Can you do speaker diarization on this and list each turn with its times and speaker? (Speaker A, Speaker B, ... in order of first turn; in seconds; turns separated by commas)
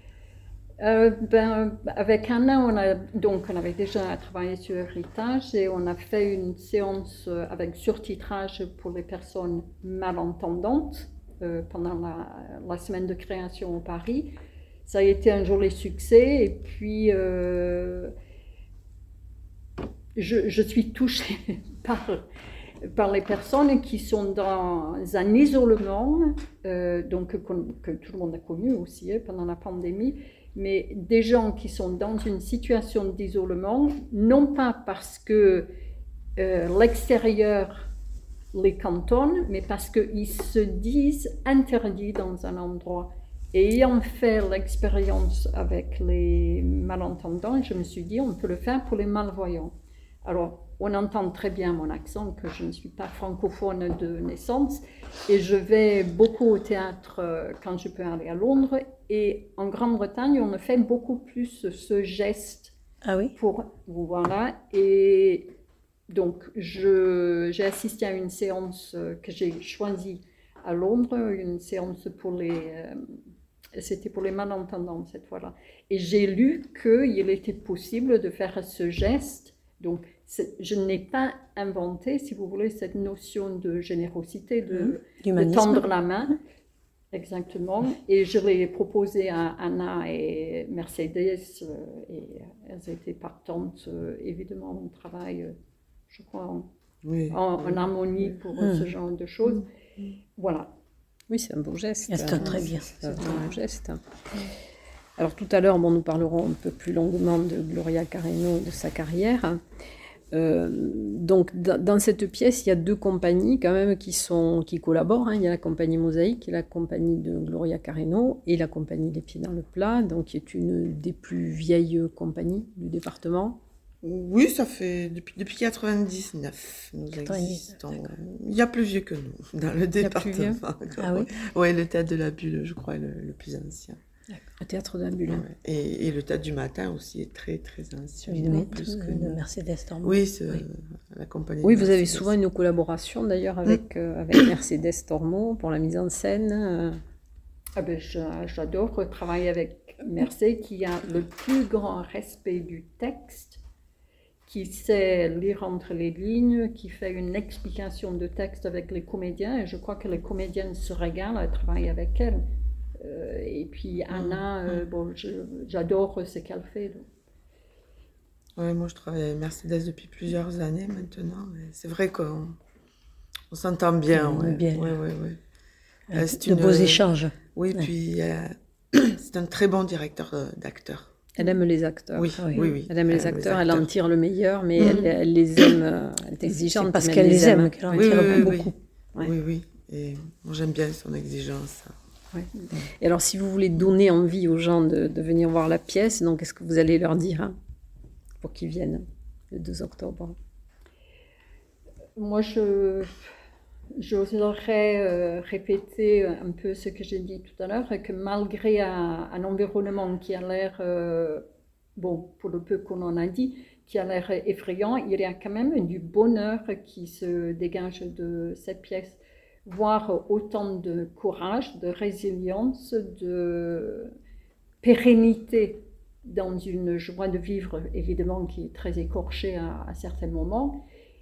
Speaker A: 0.8-14.3, Speaker A: 14.8-18.1, Speaker A: 20.2-22.2, Speaker A: 22.9-35.7, Speaker A: 36.4-37.9, Speaker A: 38.5-62.7, Speaker B: 63.0-63.3, Speaker A: 63.4-65.5, Speaker A: 66.1-73.0, Speaker A: 73.8-86.4, Speaker B: 84.7-85.9, Speaker A: 87.1-95.5, Speaker A: 96.1-96.7, Speaker C: 97.0-97.4, Speaker A: 97.3-99.7, Speaker B: 98.6-98.9, Speaker A: 100.4-100.7, Speaker D: 101.3-104.0, Speaker B: 102.1-103.4, Speaker D: 105.2-109.6, Speaker D: 110.3-123.6, Speaker C: 124.0-134.0, Speaker B: 127.2-128.1, Speaker D: 130.0-130.6, Speaker B: 131.0-131.3, Speaker D: 134.6-135.4, Speaker C: 135.3-139.4, Speaker B: 138.3-140.6, Speaker C: 140.0-142.3, Speaker D: 141.6-147.0, Speaker A: 147.8-153.6, Speaker A: 154.5-162.4, Speaker A: 163.0-167.1, Speaker C: 164.1-164.8, Speaker C: 168.6-172.6, Speaker C: 173.5-175.4, Speaker B: 174.1-174.9, Speaker B: 176.1-177.9, Speaker C: 176.1-177.0, Speaker C: 177.6-181.1, Speaker D: 181.4-188.6, Speaker C: 182.2-183.9, Speaker B: 182.4-182.7, Speaker B: 186.6-188.8, Speaker C: 187.9-191.9, Speaker D: 192.3-197.6, Speaker D: 198.4-200.4, Speaker A: 202.2-203.2, Speaker A: 204.0-211.4, Speaker A: 212.0-224.1, Speaker A: 224.8-230.8